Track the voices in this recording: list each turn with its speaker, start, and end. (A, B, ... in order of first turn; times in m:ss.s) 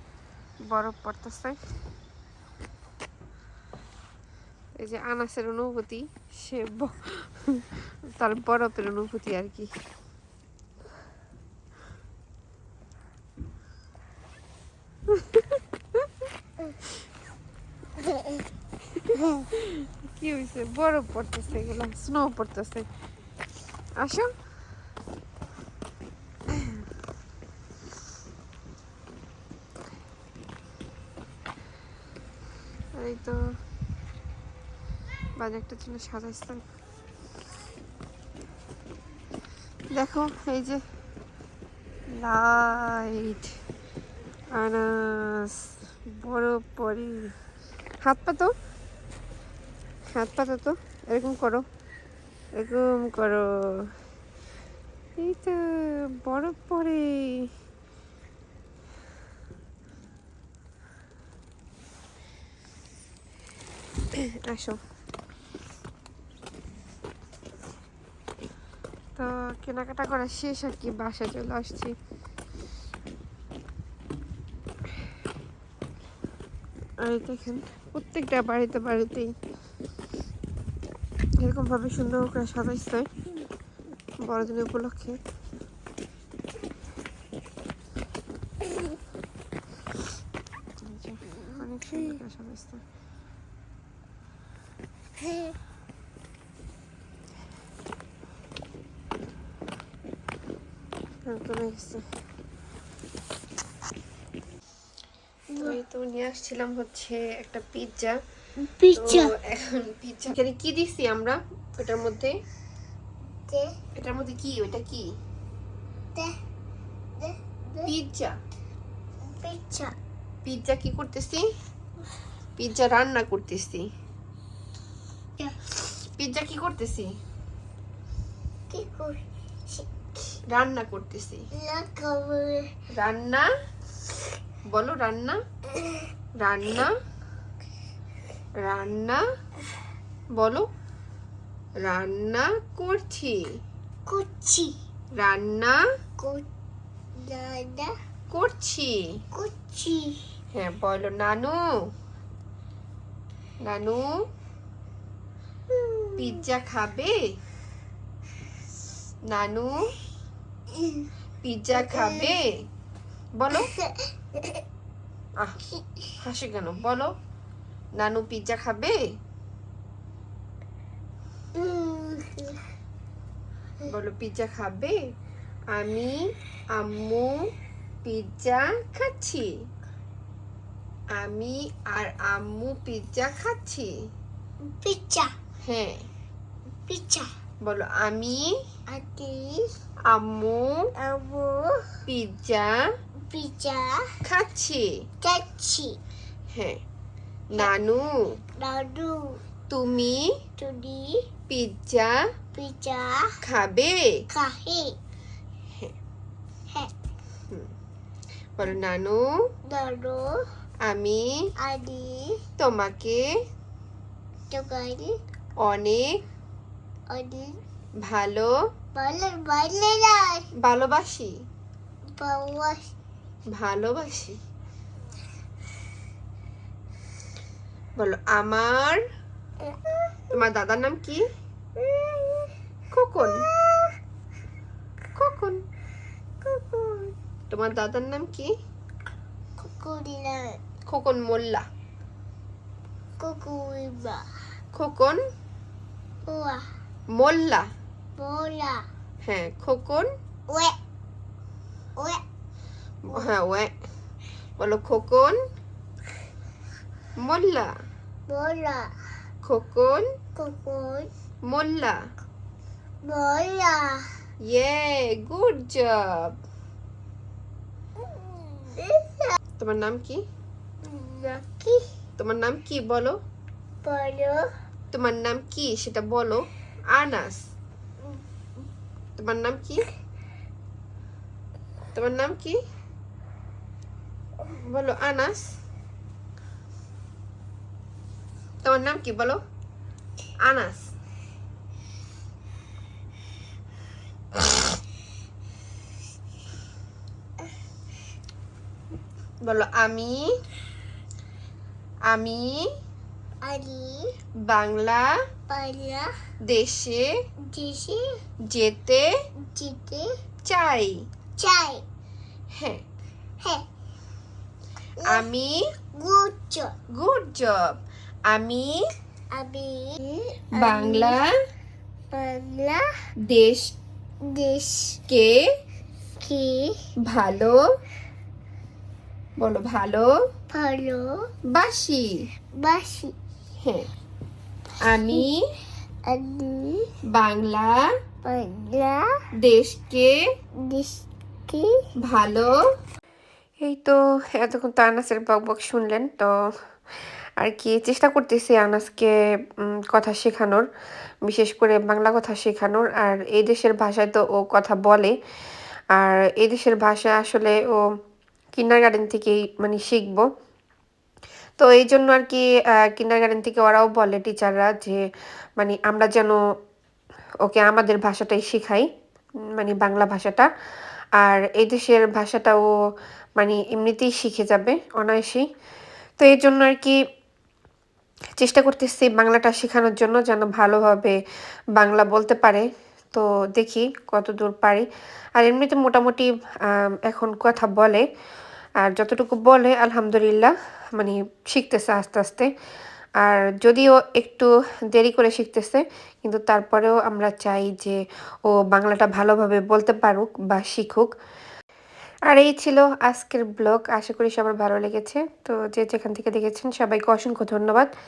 0:00.6-0:01.6 A
0:04.8-0:09.7 A
0:15.1-0:16.0 A
0:19.0-0:22.9 A
0:24.0-0:24.3 A
0:32.9-0:33.4 A
0:35.4-0:36.6 A
0:39.9-0:40.8 A
0:42.2-0:43.5 A
0:44.5-0:47.3 A
0:48.0-0:48.5 A
0:50.1-0:51.6 A
0:52.5-0:53.9 A
0:55.2-0:57.5 A
1:04.4-1:04.8 A
1:09.2-1:11.9 A
1:17.0-1:19.3 A
1:21.4-1:23.1 A
1:24.2-1:25.2 A
1:30.8-1:32.8 A
1:41.3-1:42.0 A
1:45.6-1:48.1 A
1:48.6-1:49.3 B
1:49.0-1:52.3 A
1:54.0-1:55.0 A
1:57.2-1:57.9 B
1:57.8-1:58.3 A
1:59.3-1:59.9 B
2:00.4-2:01.5 A
2:02.6-2:03.9 A
2:06.2-2:07.1 A
2:08.7-2:10.1 B
2:10.5-2:11.4 A
2:11.5-2:12.7 B
2:12.9-2:13.5 A
2:14.7-2:15.4 A
2:16.4-2:16.9 A
2:18.6-2:19.2 A
2:20.3-2:20.7 A
2:21.8-2:23.5 A
2:24.1-2:24.7 B
2:25.2-2:25.8 A
2:26.2-2:26.5 B
2:27.2-2:27.9 B
2:28.3-2:29.0 A
2:29.3-2:30.2 B
2:30.5-2:31.6 A
2:33.6-2:34.1 A
2:35.7-2:36.4 B
2:36.2-2:37.2 A
2:39.3-2:39.7 A
2:41.4-2:42.5 A
2:41.8-2:42.3 B
2:43.4-2:43.7 A
2:43.5-2:44.6 B
2:46.2-2:47.1 A
2:48.0-2:49.0 A
2:51.5-2:52.6 B
2:53.8-2:55.0 A
2:55.7-2:56.2 A
2:56.7-2:57.4 A
2:58.0-2:59.5 A
3:01.1-3:03.9 A
3:04.6-3:05.3 B
3:05.6-3:06.1 A
3:06.9-3:07.3 B
3:07.6-3:08.5 A
3:08.9-3:09.7 B
3:10.1-3:10.7 A
3:11.0-3:11.9 B
3:12.0-3:12.7 A
3:13.2-3:14.0 B
3:14.2-3:14.9 A
3:15.2-3:16.0 B
3:16.5-3:16.8 A
3:17.5-3:18.1 A
3:18.6-3:19.4 B
3:19.7-3:20.3 A
3:20.6-3:21.2 B
3:21.5-3:22.1 A
3:22.5-3:23.3 B
3:23.4-3:24.1 A
3:24.3-3:24.9 B
3:28.6-3:29.2 A
3:29.7-3:30.4 B
3:30.8-3:31.2 A
3:31.6-3:32.4 B
3:32.6-3:33.2 A
3:34.5-3:35.1 B
3:35.6-3:36.1 A
3:37.1-3:37.6 B
3:38.0-3:38.5 A
3:38.9-3:40.4 B
3:40.6-3:41.3 A
3:42.2-3:42.9 B
3:43.5-3:44.4 A
3:48.0-3:49.0 A
3:50.3-3:51.2 A
3:51.8-3:52.5 B
3:52.9-3:53.4 A
3:53.2-3:53.9 B
3:55.2-3:55.6 A
3:56.4-3:57.1 B
3:57.5-3:58.5 A
3:59.6-4:00.6 B
4:00.9-4:01.6 A
4:03.2-4:04.2 B
4:04.7-4:05.2 A
4:06.3-4:06.6 B
4:07.1-4:07.7 A
4:08.2-4:08.8 B
4:09.2-4:10.1 A
4:10.5-4:10.7 B
4:12.0-4:12.2 B
4:13.0-4:13.7 A
4:14.6-4:15.4 A
4:17.2-4:17.7 A
4:18.3-4:18.9 B
4:19.4-4:20.0 A
4:20.4-4:21.1 B
4:21.4-4:22.0 A
4:23.0-4:24.0 B
4:24.4-4:26.4 A
4:28.1-4:29.4 B
4:29.6-4:30.2 A
4:30.8-4:31.8 B
4:32.2-4:33.2 A
4:33.8-4:34.5 B
4:34.9-4:37.4 A
4:39.2-4:39.9 A
4:41.9-4:42.6 A
4:44.5-4:45.5 A
4:48.6-4:49.4 A
4:50.4-4:50.9 A
4:59.4-5:00.2 A
5:02.1-5:02.6 A
5:03.4-5:04.1 B
5:04.5-5:05.1 A
5:05.5-5:06.1 B
5:06.5-5:07.0 A
5:07.5-5:08.0 B
5:08.5-5:09.1 A
5:09.4-5:10.1 B
5:10.4-5:11.0 A
5:11.4-5:11.8 B
5:12.6-5:12.8 A
5:15.0-5:15.6 A
5:16.0-5:16.7 B
5:16.9-5:18.8 A
5:19.3-5:21.2 B
5:20.5-5:21.2 A
5:22.1-5:22.8 B
5:23.3-5:23.7 A
5:24.2-5:25.0 B
5:25.1-5:25.4 A
5:26.2-5:26.8 B
5:27.0-5:27.6 A
5:29.4-5:30.1 A
5:30.5-5:31.2 B
5:31.5-5:32.0 A
5:32.6-5:33.1 B
5:33.6-5:33.9 A
5:34.8-5:35.4 A
5:36.1-5:36.9 B
5:37.1-5:37.8 A
5:38.2-5:39.1 B
5:39.4-5:40.1 A
5:40.6-5:41.7 B
5:42.0-5:42.5 A
5:43.6-5:46.3 A
5:47.4-5:50.6 A
5:51.2-5:55.1 A
5:55.9-5:57.8 A
5:58.5-6:00.2 A
6:01.6-6:05.0 A
6:05.6-6:06.4 A
6:07.4-6:08.8 A
6:09.6-6:10.5 A
6:11.2-6:12.6 A
6:13.4-6:15.4 A
6:16.2-6:16.9 A
6:18.4-6:21.2 A
6:21.8-6:24.8 A
6:25.4-6:28.0 A
6:28.8-6:32.5 A
6:33.2-6:41.1 A
6:42.3-6:47.9 A